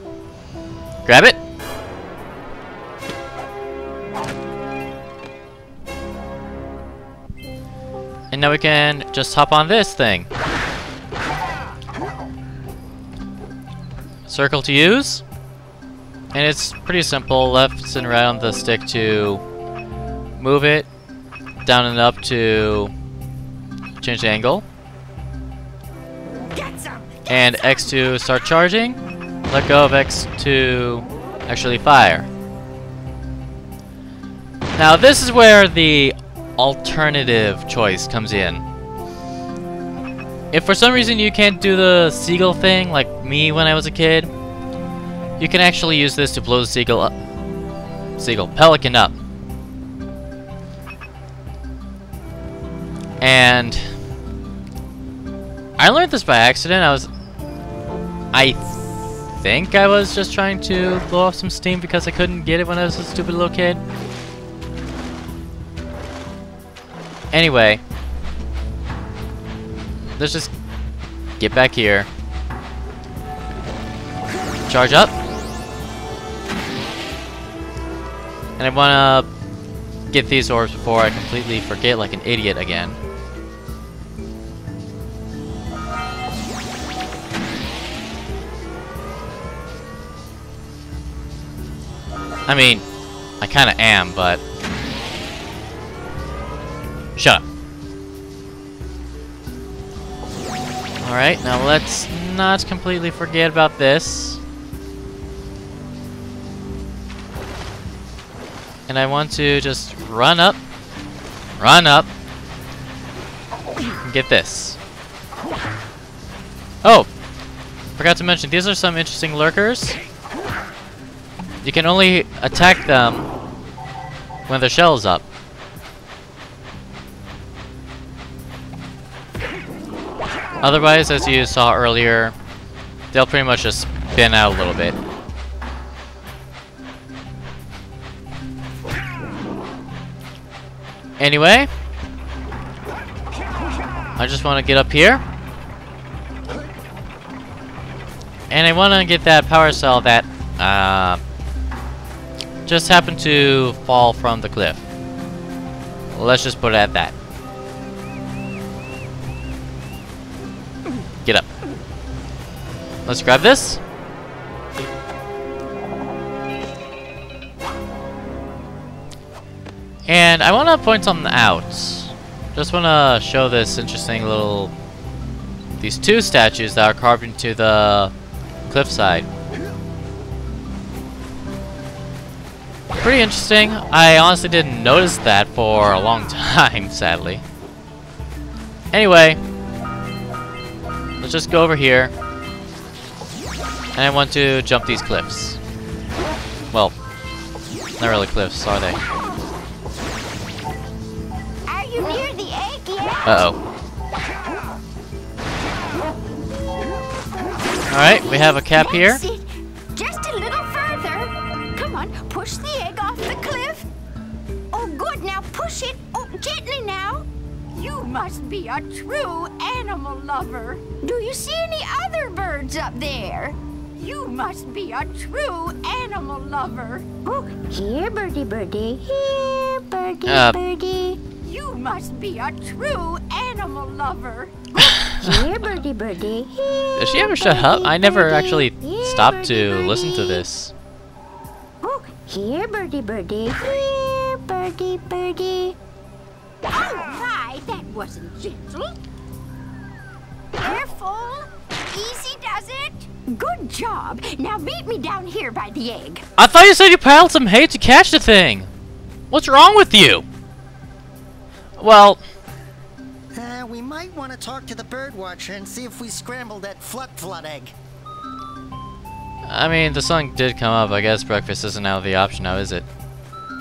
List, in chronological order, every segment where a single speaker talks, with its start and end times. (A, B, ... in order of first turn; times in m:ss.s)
0:01.0-0:01.4 A
0:08.3-0:10.3 A
0:14.3-0:15.2 A
0:16.3-0:19.4 A
0:20.4-0:20.9 A
0:21.6-0:22.9 A
0:24.0-0:24.6 A
0:26.5-0:27.4 B
0:27.3-0:32.3 A
0:34.7-0:38.6 A
0:40.5-0:44.3 A
0:45.4-0:47.1 A
0:48.2-0:49.1 A
0:53.2-0:53.9 A
0:55.8-0:57.1 A
0:58.3-1:03.8 A
1:07.3-1:07.8 A
1:10.2-1:10.5 A
1:11.4-1:12.1 A
1:14.7-1:15.1 A
1:18.6-1:19.3 A
1:20.1-1:23.0 A
1:32.5-1:32.8 A
1:33.4-1:34.4 A
1:37.2-1:37.4 A
1:41.0-1:44.4 A
1:48.9-1:50.6 A
1:51.6-1:52.1 A
1:54.0-1:54.8 A
1:56.8-1:57.1 A
1:58.0-2:00.0 A
2:01.6-2:03.3 A
2:04.5-2:05.3 A
2:10.6-2:12.4 A
2:13.1-2:15.0 A
2:21.2-2:21.7 A
2:24.2-2:25.2 A
2:28.5-2:31.2 A
2:32.7-2:34.8 A
2:36.1-2:37.2 A
2:43.0-2:43.8 A
2:50.1-2:54.7 A
2:55.8-2:58.1 A
2:58.7-2:59.3 A
3:03.0-3:07.4 A
3:08.9-3:09.4 A
3:11.2-3:12.1 A
3:14.0-3:15.6 A
3:18.0-3:19.0 A
3:21.7-3:23.4 C
3:23.2-3:23.6 A
3:27.9-3:29.2 A
3:28.6-3:33.9 C
3:34.7-4:00.4 C
3:50.2-3:50.6 A
3:54.8-3:55.4 A
3:57.0-4:00.7 A
4:01.8-4:05.8 C
4:06.7-4:09.0 C
4:10.5-4:16.2 C
4:16.4-4:18.7 A
4:19.3-4:20.2 A
4:21.8-4:22.2 A
4:23.3-4:27.8 B
4:29.4-4:32.9 A